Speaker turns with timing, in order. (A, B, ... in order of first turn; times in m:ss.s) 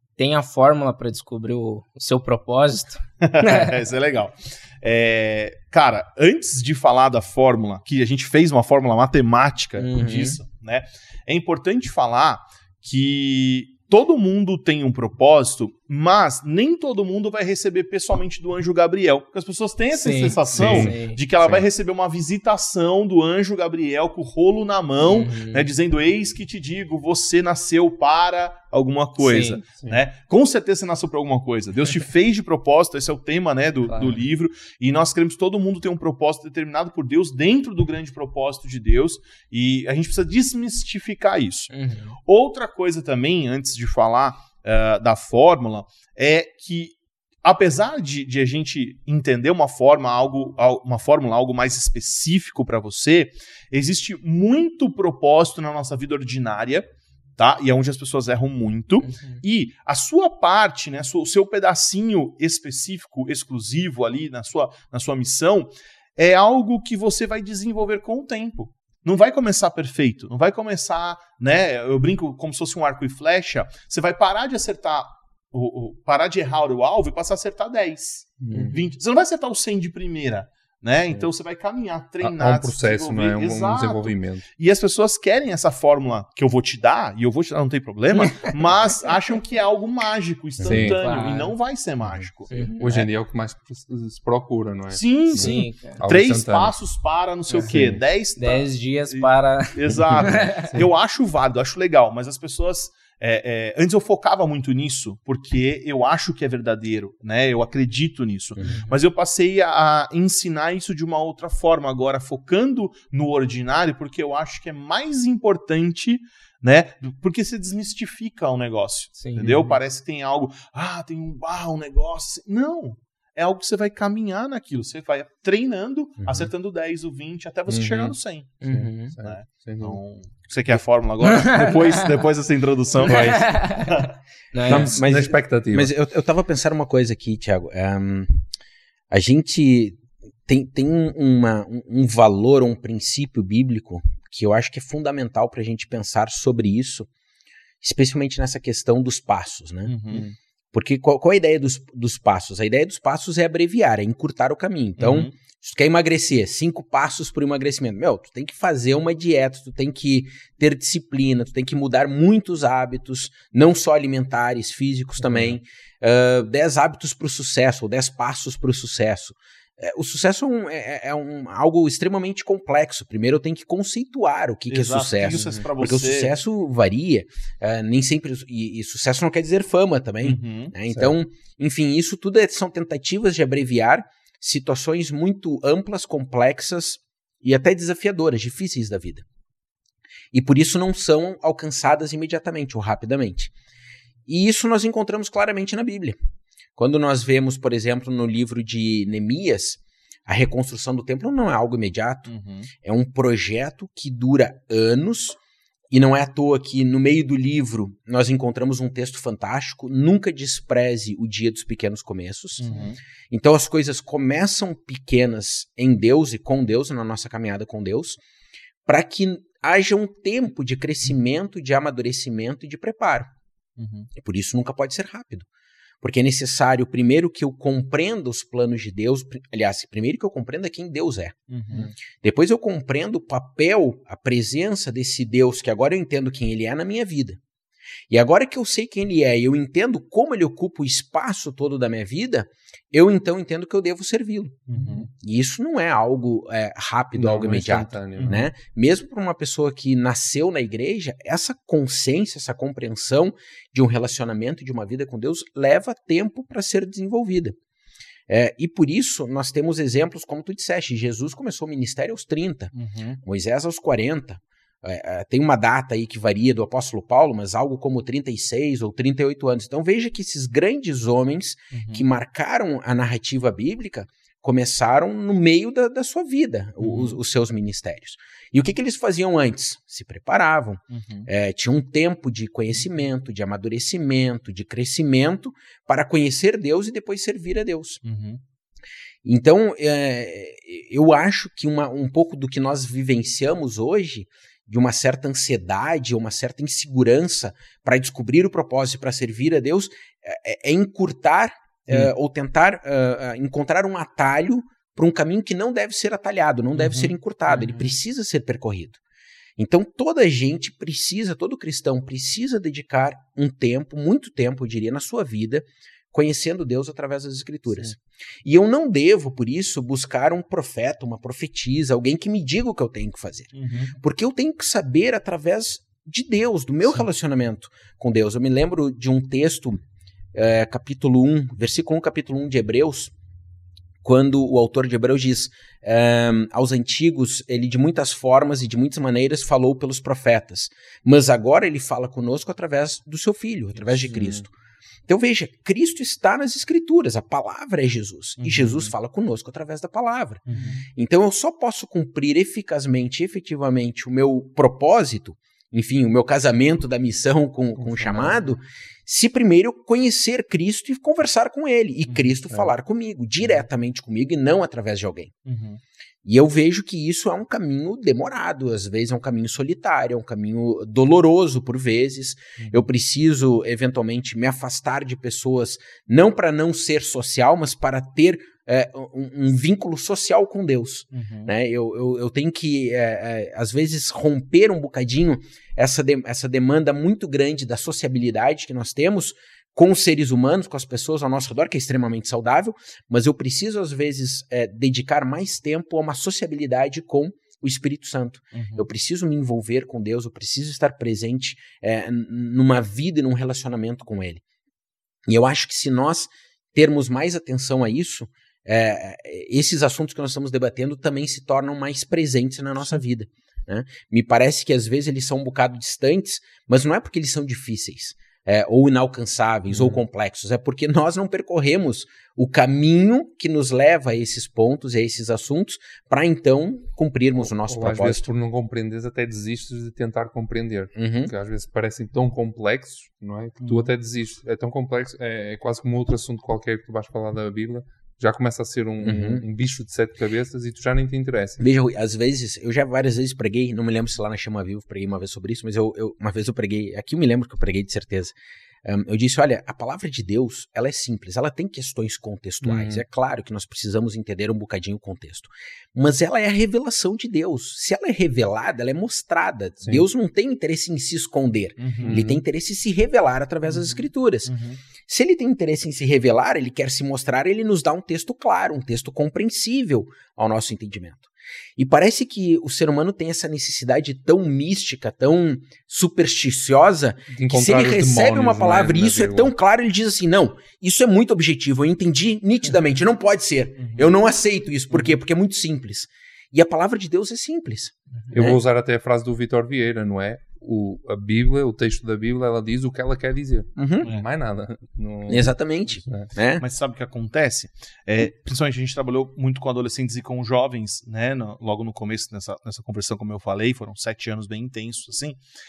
0:00.2-0:03.7 A
0:03.2-0:41.7 B
0:09.8-0:10.4 A
0:19.9-0:21.2 A
0:20.5-0:21.6 C
0:25.0-0:25.7 A
0:29.2-0:29.6 A
0:33.9-0:34.2 A
0:41.7-0:42.2 A
0:42.3-1:33.1 B
0:59.0-0:59.4 A
1:18.4-1:18.7 C
1:22.2-1:24.4 C
1:28.2-1:28.5 A
1:30.6-1:30.9 D
1:30.7-1:31.0 C
1:30.8-1:31.6 A
1:32.5-1:33.0 A
1:32.8-1:36.8 C
1:34.9-2:08.6 B
1:35.4-1:36.0 A
1:37.5-1:37.8 A
1:37.7-1:38.0 C
1:38.4-1:40.7 A
1:40.2-1:40.9 C
1:48.6-1:49.0 A
1:59.2-1:59.7 A
1:59.4-1:59.7 C
2:06.2-2:06.5 D
2:07.7-2:08.2 C
2:08.6-2:09.1 A
2:08.7-2:10.0 C
2:09.2-2:14.1 B
2:11.2-2:12.0 A
2:13.0-2:15.0 A
2:13.1-2:13.6 C
2:14.7-2:15.9 C
2:14.7-2:18.4 D
2:19.1-2:27.1 D
2:27.8-2:30.2 D
2:29.9-2:30.2 B
2:30.7-3:09.2 D
2:35.0-2:35.3 B
2:45.2-2:45.5 C
2:54.7-2:56.4 B
3:00.2-3:00.7 B
3:00.9-3:01.1 C
3:10.3-3:13.5 D
3:14.3-3:16.2 D
3:16.8-3:25.4 D
3:22.3-3:22.7 B
3:25.9-3:32.6 D
3:32.6-3:33.0 B
3:33.3-3:38.2 D
3:38.9-3:43.3 D
3:43.8-3:44.1 B
3:44.2-3:45.5 D
3:46.0-3:51.4 D
3:51.5-3:51.9 B
3:52.2-3:57.4 D
3:58.1-4:17.6 D
4:04.7-4:05.1 B
4:07.2-4:08.4 C
4:08.2-4:08.4 B
4:18.3-4:22.7 D
4:22.7-4:23.2 B
4:23.2-4:48.0 D
4:31.7-4:32.0 B
4:36.8-4:37.2 B
4:40.9-4:41.3 B
4:48.0-4:48.4 B
4:49.2-5:09.0 D
5:06.8-5:07.1 B
5:07.6-5:07.9 C
5:09.6-5:29.8 D
5:23.5-5:24.0 B
5:30.3-5:33.1 D
5:34.0-5:44.5 D
5:43.9-5:44.4 C
5:45.1-6:05.3 D
5:48.4-5:48.9 B
5:50.5-5:50.8 B
5:57.8-5:58.5 C
6:02.1-6:02.4 B
6:05.5-6:05.8 B
6:06.2-6:44.4 D
6:12.6-6:12.9 B
6:21.1-6:21.5 B
6:38.5-6:38.9 B
6:45.3-7:08.3 D
6:59.7-7:00.0 C
7:07.4-7:21.6 C
7:11.0-7:11.3 D
7:13.6-7:13.9 B
7:19.0-7:19.4 D
7:21.6-7:44.5 D
7:32.6-7:33.0 C
7:41.8-7:42.2 B
7:42.0-7:42.4 C
7:44.5-7:44.8 B
7:45.1-8:08.6 D
7:57.3-7:59.5 C
8:03.8-8:04.1 B
8:08.3-8:16.3 C
8:13.8-8:14.1 D
8:15.3-8:16.6 D
8:16.6-8:25.4 B